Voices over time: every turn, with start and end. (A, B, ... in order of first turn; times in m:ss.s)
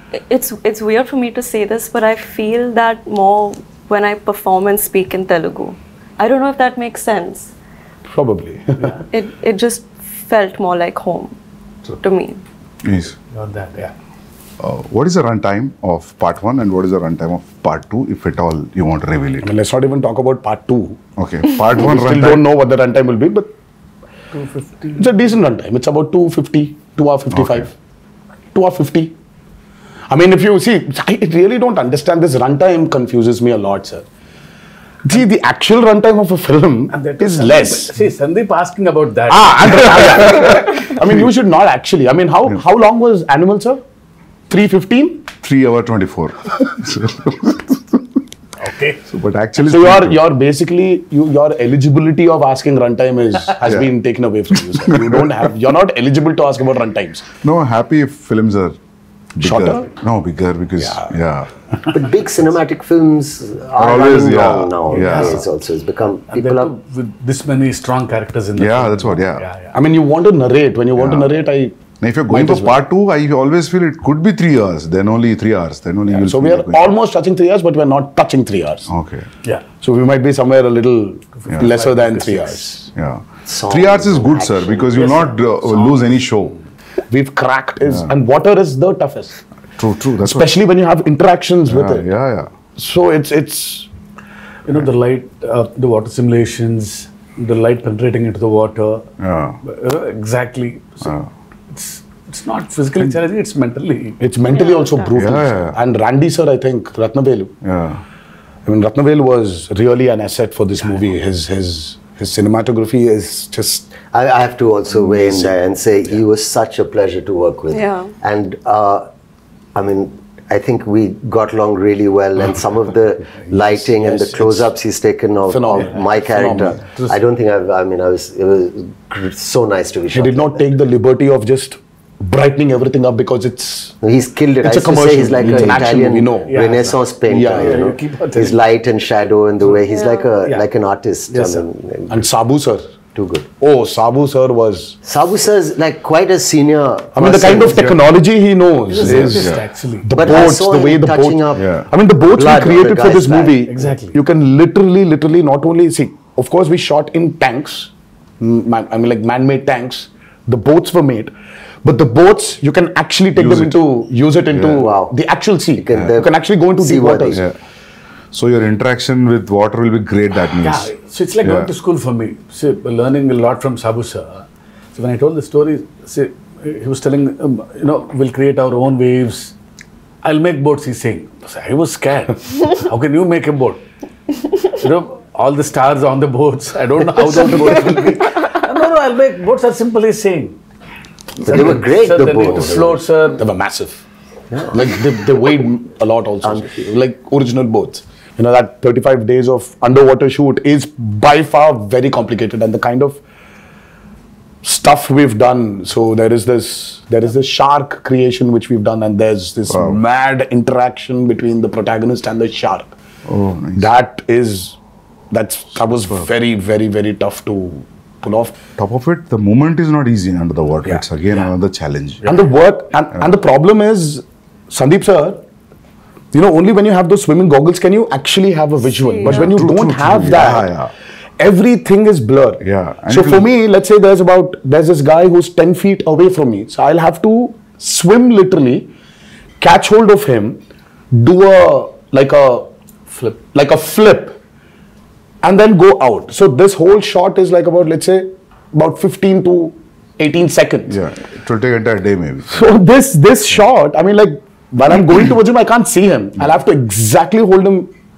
0:00.2-0:07.5 A
0:08.1-0:09.0 B
0:09.1-0:11.4 A
0:12.0-0:12.4 A
0:12.8-0:13.2 C
0:13.3-0:13.9 D
0:14.6-0:19.5 C
0:19.4-0:21.0 B
0:21.2-0:22.4 C
0:21.8-0:23.5 B
0:24.3-0:25.0 D
0:25.0-0:27.7 B
0:27.3-0:27.7 C
0:28.5-0:29.1 B
0:30.1-0:34.1 B
0:35.0-0:38.0 B
0:36.9-0:40.3 D
0:39.3-0:43.8 B
0:44.5-0:45.3 B
0:45.4-0:48.0 C
0:48.6-0:49.0 D
0:49.0-0:50.2 C
0:49.6-0:57.3 B
0:53.6-0:53.9 C
0:54.8-0:55.4 C
0:57.4-0:58.8 C
0:59.4-1:01.5 C
0:59.4-0:59.9 B
1:00.8-1:01.1 B
1:01.8-1:06.8 E
1:03.8-1:05.4 C
1:06.3-1:09.8 D
1:08.6-1:09.5 C
1:09.7-1:11.8 B
1:11.0-1:11.3 C
1:12.0-1:16.9 C
1:12.3-1:12.8 B
1:16.1-1:18.9 B
1:18.9-1:19.3 C
1:19.8-1:22.8 B
1:21.4-1:22.8 D
1:21.5-1:21.8 C
1:22.9-1:26.6 C
1:23.4-1:25.2 E
1:25.7-1:26.2 D
1:27.1-1:29.4 B
1:27.9-1:28.2 C
1:29.8-1:30.5 C
1:30.2-1:32.1 B
1:31.7-1:32.5 C
1:32.8-1:33.9 B
1:34.6-1:39.1 D
1:39.2-1:39.6 C
1:39.6-1:41.1 D
1:41.0-1:41.3 C
1:41.7-1:44.2 D
1:44.2-1:47.5 B
1:44.5-1:45.2 A
1:45.2-1:45.8 C
1:47.6-1:48.0 C
1:48.6-1:54.0 B
1:54.0-1:59.1 E
1:55.0-1:55.5 C
1:57.7-1:58.1 A
1:59.8-2:10.7 E
2:04.0-2:04.5 B
2:05.5-2:06.8 B
2:10.1-2:13.9 B
2:14.0-2:22.2 E
2:14.6-2:16.6 B
2:16.5-2:18.6 D
2:17.3-2:18.0 B
2:19.9-2:20.4 A
2:22.1-2:22.8 B
2:23.1-2:23.5 E
2:23.6-2:25.0 B
2:25.0-2:27.9 E
2:27.2-2:41.3 B
2:28.9-2:29.5 E
2:29.0-2:30.0 D
2:29.0-2:29.6 C
2:30.1-2:31.7 E
2:31.6-2:31.9 C
2:32.2-2:33.7 E
2:33.8-2:34.2 D
2:41.8-2:47.4 B
2:43.4-2:43.8 C
2:44.5-2:44.9 C
2:44.7-2:45.1 E
2:45.8-2:47.4 E
2:47.3-2:47.6 C
2:48.3-2:51.7 C
2:50.6-2:59.5 D
3:00.2-3:03.8 D
3:04.7-3:10.6 D
3:11.4-3:13.0 E
3:11.7-3:13.4 D
3:13.3-3:14.0 B
3:14.5-3:14.8 E
3:14.7-3:23.2 B
3:16.4-3:16.7 E
3:24.6-3:32.9 B
3:29.7-3:30.0 C
3:33.2-3:33.9 C
3:33.8-3:34.8 B
3:35.3-3:38.6 B
3:36.0-3:36.2 C
3:38.8-3:42.3 C
3:42.2-3:45.4 B
3:46.3-3:50.7 B
3:48.8-3:49.6 A
3:49.2-3:50.9 C
3:51.4-3:58.9 B
3:52.6-3:53.5 C
3:59.6-4:00.6 B
4:01.1-4:04.4 B
4:05.4-4:11.0 B
4:10.9-4:12.7 C
4:12.5-4:17.9 B